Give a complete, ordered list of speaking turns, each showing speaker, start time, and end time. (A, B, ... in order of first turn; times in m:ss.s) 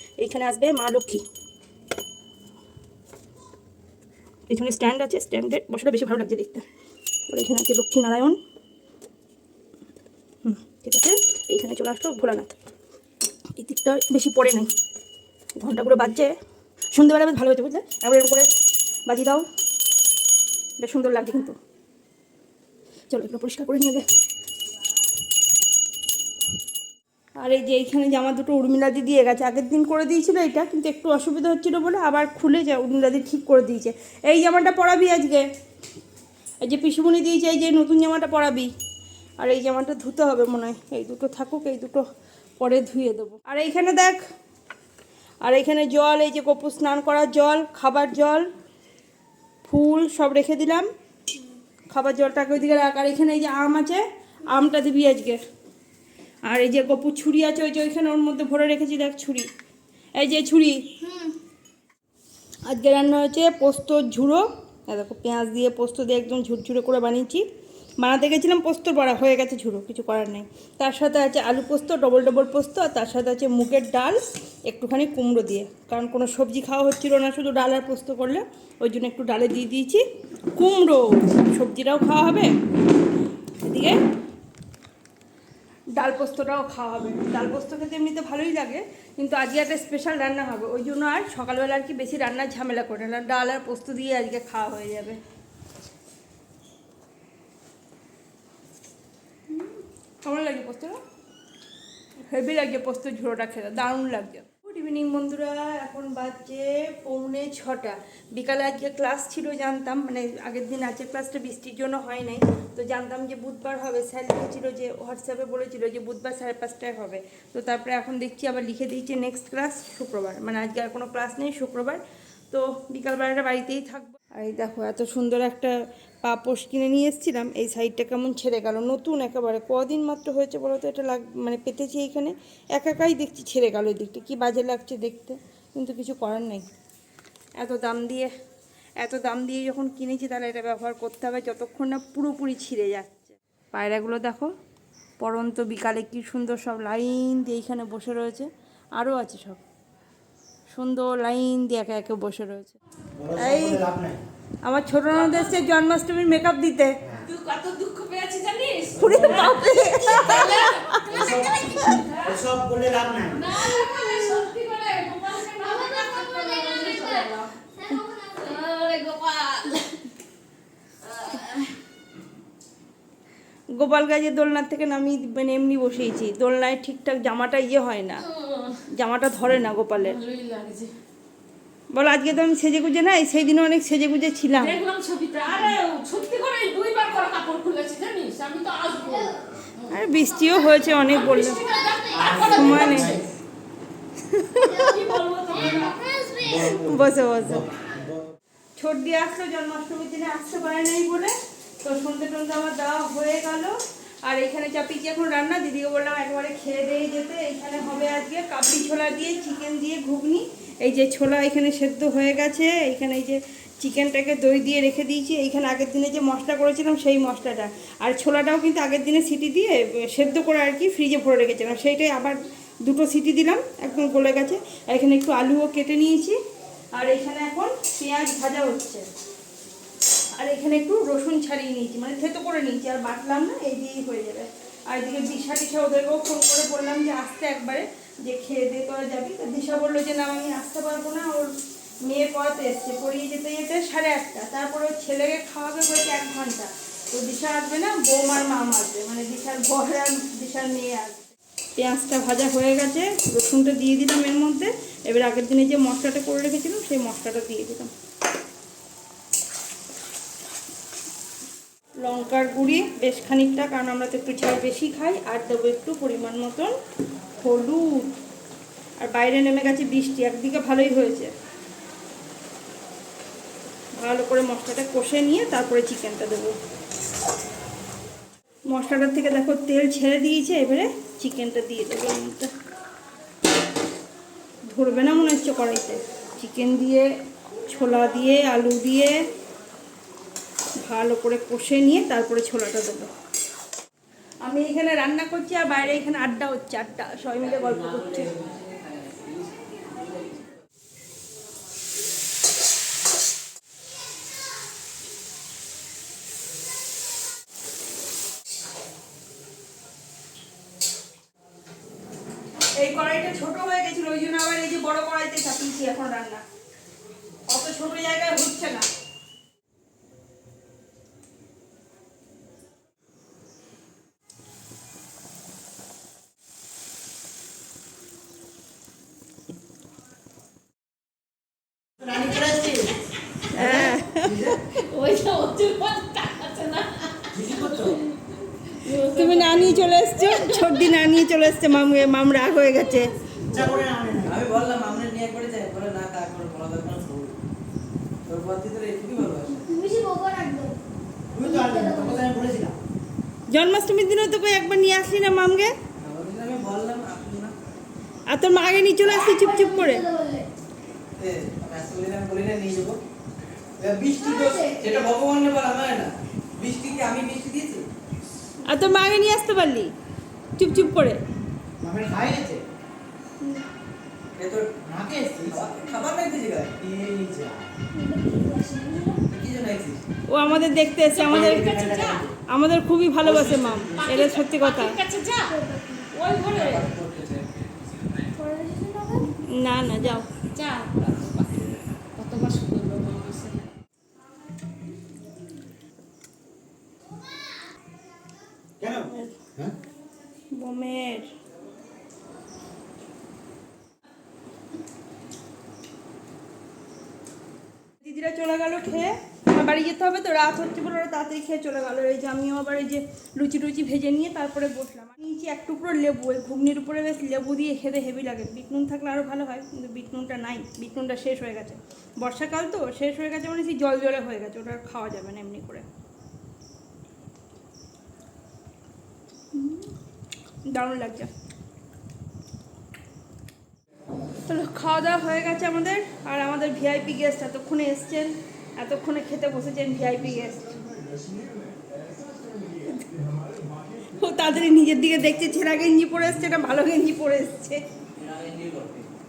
0:00.2-0:01.2 A
0:04.5-0:06.7 A
0:07.3-0:08.4 A
0:10.4-0:12.5 A
0:13.6-0:14.7 A
0:15.6-0:16.3 A
0:16.9-0:18.5 A
0:19.0-0:19.4 A
0:20.8-0:21.6 A
0:23.1-0:24.0 A
0:27.4-0:35.5 A
0:36.6-0:38.7 A
0:39.4-0:42.0 A
0:42.6-0:44.2 A
0:45.4-0:48.5 A
0:49.6-0:50.9 A
0:51.9-0:55.4 A
0:56.5-0:59.5 A
1:00.2-1:01.0 A
1:01.0-1:01.3 B
1:02.6-1:07.4 A
1:08.0-1:20.0 A
1:20.5-1:22.5 A
1:23.6-1:24.0 A
1:25.9-1:35.2 A
1:39.5-1:41.0 A
1:42.3-2:16.6 A
2:17.6-2:18.3 A
2:19.0-2:24.5 A
2:25.2-2:29.6 A
2:30.7-2:32.8 A
2:33.2-2:34.2 C
2:33.3-2:33.8 A
2:34.6-2:37.0 A
2:35.1-2:35.6 D
2:37.0-2:37.3 C
2:37.2-2:42.4 D
2:39.0-2:39.5 C
2:39.0-2:41.0 A
2:41.0-2:43.4 C
2:43.3-2:47.5 D
2:45.8-2:47.2 B
2:47.8-2:48.6 B
2:48.4-2:49.8 D
2:51.0-2:51.7 D
2:53.8-2:58.2 A
2:58.3-2:58.8 D
2:58.9-3:00.2 A
3:00.0-3:00.9 D
3:01.9-3:04.8 A
3:04.6-3:10.0 D
3:09.9-3:11.6 A
3:10.6-3:13.2 D
3:12.1-3:13.2 C
3:12.5-3:13.2 A
3:14.2-3:14.8 A
3:14.6-3:16.1 D
3:15.6-3:18.3 C
3:16.0-3:16.6 B
3:16.7-3:17.7 A
3:18.8-3:46.4 A
3:46.9-3:49.0 A
3:50.3-4:01.5 A
4:02.0-4:17.9 A
4:22.0-4:26.7 A
4:27.4-4:28.1 A
4:29.0-4:31.3 A
4:34.0-4:36.6 A
4:38.7-4:42.5 A
4:44.7-4:47.1 A
4:47.7-4:49.2 A
4:50.8-4:53.1 A
4:54.4-4:58.3 A
5:12.8-5:16.4 A
5:17.5-5:18.8 A
5:32.0-5:32.9 C
5:33.5-5:34.6 A
5:33.5-5:34.6 E
5:34.7-5:38.2 D
5:37.3-5:38.0 C
5:38.7-5:40.7 D
5:38.9-5:43.1 A
5:43.5-5:44.4 C
5:44.2-5:47.4 E
5:48.2-5:49.6 E
5:49.5-5:50.8 B
5:51.3-5:52.7 C
5:51.3-5:52.2 B
5:53.5-5:55.7 A
5:56.0-5:57.5 E
5:58.3-6:00.0 A
5:59.1-6:00.5 B
6:01.2-6:03.0 E
6:03.8-6:07.8 E
6:04.2-6:04.9 B
6:08.6-6:09.9 A
6:10.6-6:11.2 A
6:11.8-6:12.6 C
6:14.4-6:14.7 E
6:14.8-6:15.7 C
6:15.4-6:16.8 E
6:16.7-6:17.7 C
6:17.9-6:19.2 B
6:19.3-6:20.0 E
6:20.3-6:21.8 A
6:21.0-6:22.3 D
6:21.3-6:22.3 C
6:22.5-6:25.0 A
6:23.2-6:24.0 E
6:24.0-6:25.6 D
6:25.5-6:26.1 B
6:26.1-6:26.9 D
6:26.5-6:27.7 E
6:28.3-6:29.4 B
6:29.4-6:30.3 A
6:30.4-6:33.7 D
6:38.8-6:39.7 C
6:39.0-6:39.3 A
6:40.5-6:41.3 A
6:48.0-7:05.8 A
7:09.5-7:09.9 A
7:10.7-7:11.3 A
7:14.5-7:20.8 A
7:23.9-7:27.8 A
7:28.2-7:29.1 E